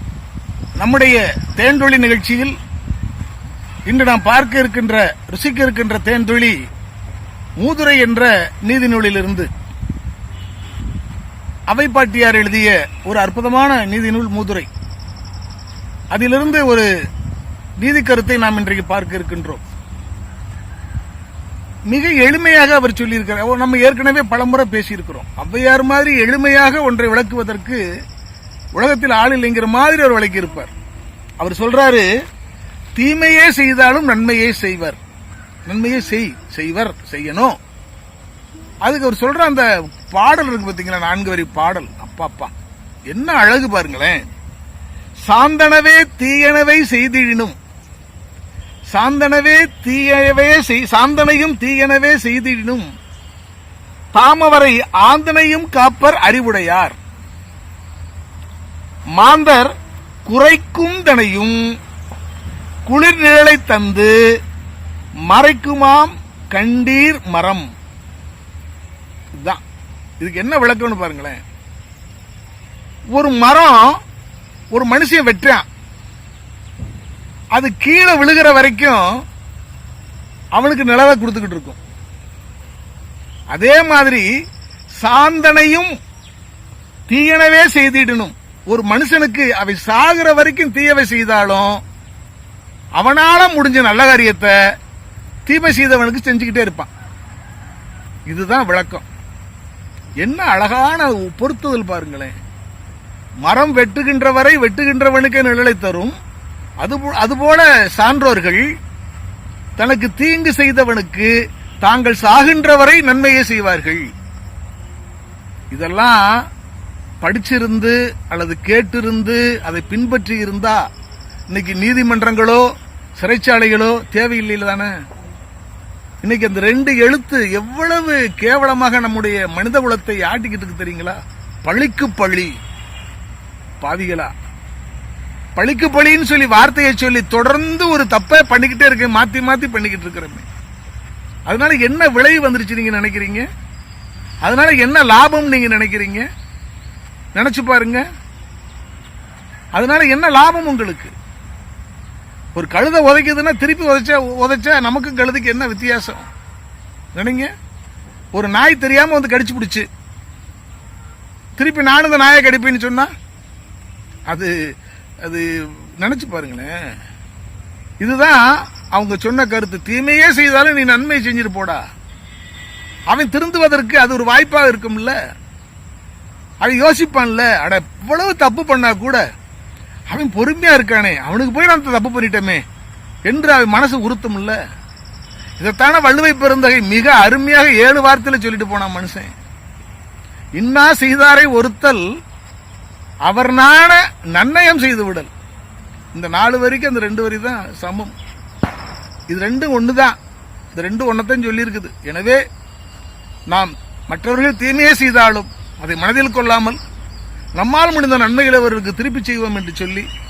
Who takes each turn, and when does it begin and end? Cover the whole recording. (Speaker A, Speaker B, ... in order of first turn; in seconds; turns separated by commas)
Speaker A: 0.8-2.5, Speaker A: 3.9-6.6, Speaker A: 7.6-9.5, Speaker A: 11.7-14.7, Speaker A: 16.1-16.9, Speaker A: 17.8-19.6, Speaker A: 21.9-27.8, Speaker A: 28.8-30.7, Speaker A: 31.4-32.0, Speaker A: 32.9-35.0, Speaker A: 35.7-37.6, Speaker A: 38.8-42.5, Speaker A: 43.1-44.3, Speaker A: 45.2-47.5, Speaker A: 48.9-52.9, Speaker A: 54.1-57.0, Speaker A: 59.1-59.7, Speaker A: 60.2-61.6, Speaker A: 62.9-64.1, Speaker A: 65.3-67.7, Speaker A: 70.2-71.4, Speaker A: 73.1-74.0, Speaker A: 74.7-75.7, Speaker A: 77.5-79.2, Speaker A: 80.5-81.8, Speaker A: 83.5-84.3, Speaker A: 85.0-85.9, Speaker A: 87.1-91.8, Speaker A: 93.0-94.5, Speaker A: 95.5-96.9, Speaker A: 98.3-99.1, Speaker A: 100.2-102.3, Speaker A: 103.4-106.1, Speaker A: 106.8-108.7, Speaker A: 109.8-114.0, Speaker A: 115.7-116.4, Speaker A: 117.2-120.8, Speaker A: 121.5-122.7, Speaker A: 123.2-125.0, Speaker A: 126.2-132.6, Speaker A: 133.8-134.3, Speaker A: 135.6-140.5, Speaker A: 141.5-143.5, Speaker A: 144.4-146.2, Speaker A: 147.3-148.1, Speaker A: 149.7-151.1, Speaker A: 152.6-156.3, Speaker A: 157.1-157.5, Speaker A: 158.3-159.8, Speaker A: 161.6-163.1, Speaker A: 164.3-164.6, Speaker A: 165.2-166.9, Speaker A: 168.0-171.8, Speaker A: 173.1-175.2, Speaker A: 176.6-179.2, Speaker A: 180.1-182.6, Speaker A: 183.2-184.6, Speaker A: 185.6-189.3, Speaker A: 190.6-192.1, Speaker A: 193.2-195.3, Speaker A: 196.1-198.1, Speaker A: 199.3-200.2, Speaker A: 200.7-202.4, Speaker A: 203.5-206.8, Speaker A: 207.6-210.1